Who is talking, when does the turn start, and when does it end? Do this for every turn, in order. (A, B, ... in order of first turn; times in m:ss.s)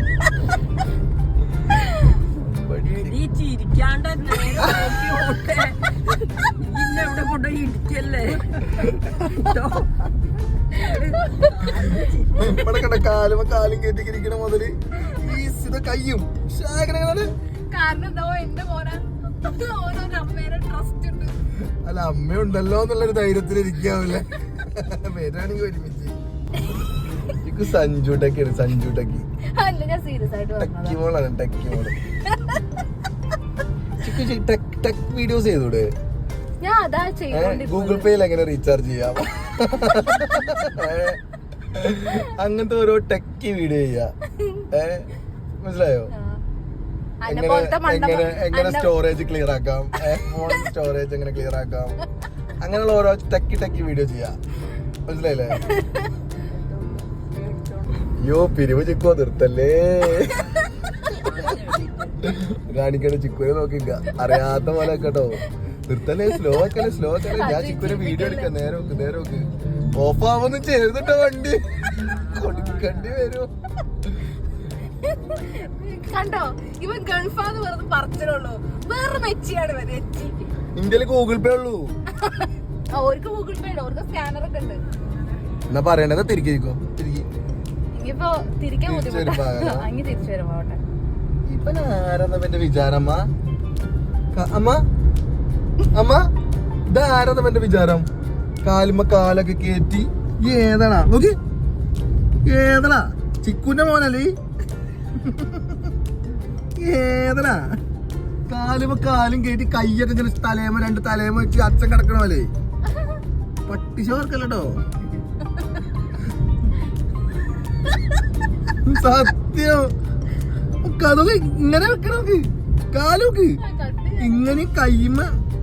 0:02.3-0:03.2 A
0:02.9-0:10.1 B
0:10.7-0:12.9 B
0:12.4-0:17.3 A
0:17.7-0:21.4 C
0:21.8-0:26.2 A
0:27.4-0:29.3 A
0:29.5-0:31.0 C
0:30.6-0:32.0 A
0:32.3-0:32.6 C
0:34.0-0:35.9 A
0:36.6-0:38.1 C
0:37.3-0:41.2 A
0:41.7-0:44.1 A
0:44.4-0:44.7 C
0:44.7-0:45.1 A
0:45.6-0:46.1 A
0:46.1-0:46.4 C
0:47.2-0:48.9 C
0:47.3-0:52.0 A
0:52.6-0:54.4 A
0:55.1-0:55.6 A
0:55.7-0:56.1 C
0:56.3-0:58.1 B
0:58.2-1:00.5 A
1:01.1-1:02.4 B
1:02.2-1:11.6 A
1:07.3-1:08.5 C
1:12.2-1:13.1 B
1:12.3-1:13.5 A
1:14.0-1:14.3 A
1:14.8-1:20.5 C
1:20.8-1:21.9 A
1:22.2-1:24.8 C
1:25.7-1:27.3 A
1:27.9-1:30.8 C
1:28.9-1:29.9 A
1:31.5-1:33.2 A
1:34.3-1:34.8 A
1:35.9-1:36.2 A
1:36.9-1:38.0 A
1:38.6-1:41.4 A
1:42.5-1:44.3 A
1:45.2-1:45.8 A
1:46.8-1:47.6 A
1:48.5-1:52.5 A
1:53.7-1:54.8 A
1:58.8-1:59.9 A
2:00.8-2:03.6 A
2:03.6-2:04.4 C
2:04.2-2:05.3 A